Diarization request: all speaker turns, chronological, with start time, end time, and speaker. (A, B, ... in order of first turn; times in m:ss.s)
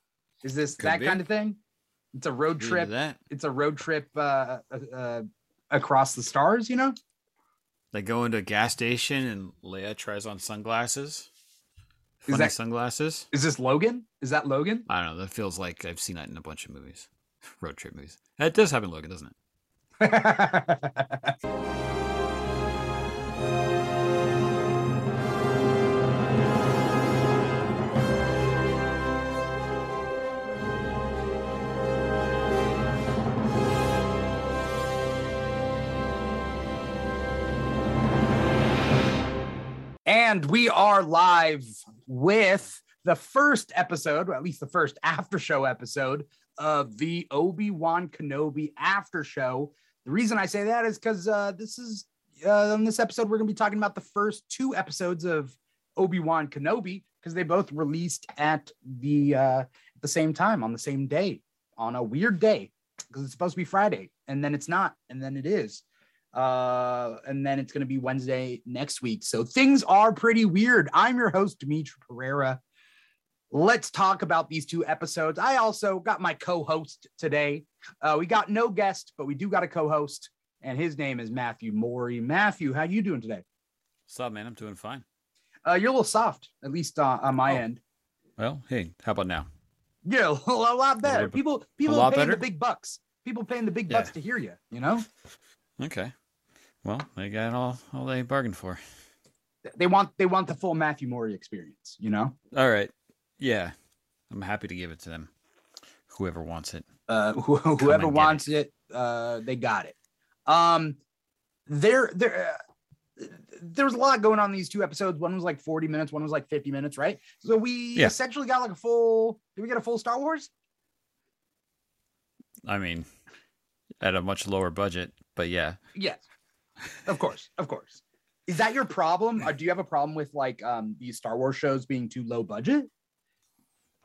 0:00.4-0:01.6 A
0:00.8-0:01.2 B
0:02.1-0:07.0 A
0:02.6-0:03.2 B
0:07.9-0:11.3 B
0:12.3-0:12.5 A
0:12.3-0:13.3 B
0:13.3-0:14.8 A
0:14.9-0:17.1 B
0:17.6-0:19.3 B
0:20.0-0:21.3 A
0:40.0-1:05.8 A
1:06.3-1:12.6 A
1:13.5-1:23.4 A
1:24.1-1:25.0 B
1:25.6-1:27.8 A
1:28.4-1:29.5 B
1:30.0-1:35.0 A
1:31.0-1:32.4 B
1:35.8-1:36.1 B
1:36.8-1:38.8 B
1:39.7-1:42.3 A
1:42.5-1:43.7 B
1:44.3-1:45.3 B
1:46.1-1:46.9 B
1:47.1-1:49.9 A
1:47.8-1:48.4 B
1:50.5-1:51.0 A
1:51.7-1:52.6 A
1:53.2-2:00.5 A
2:02.6-2:03.1 B
2:04.0-2:05.8 B
2:05.9-2:06.2 A
2:07.0-2:12.9 A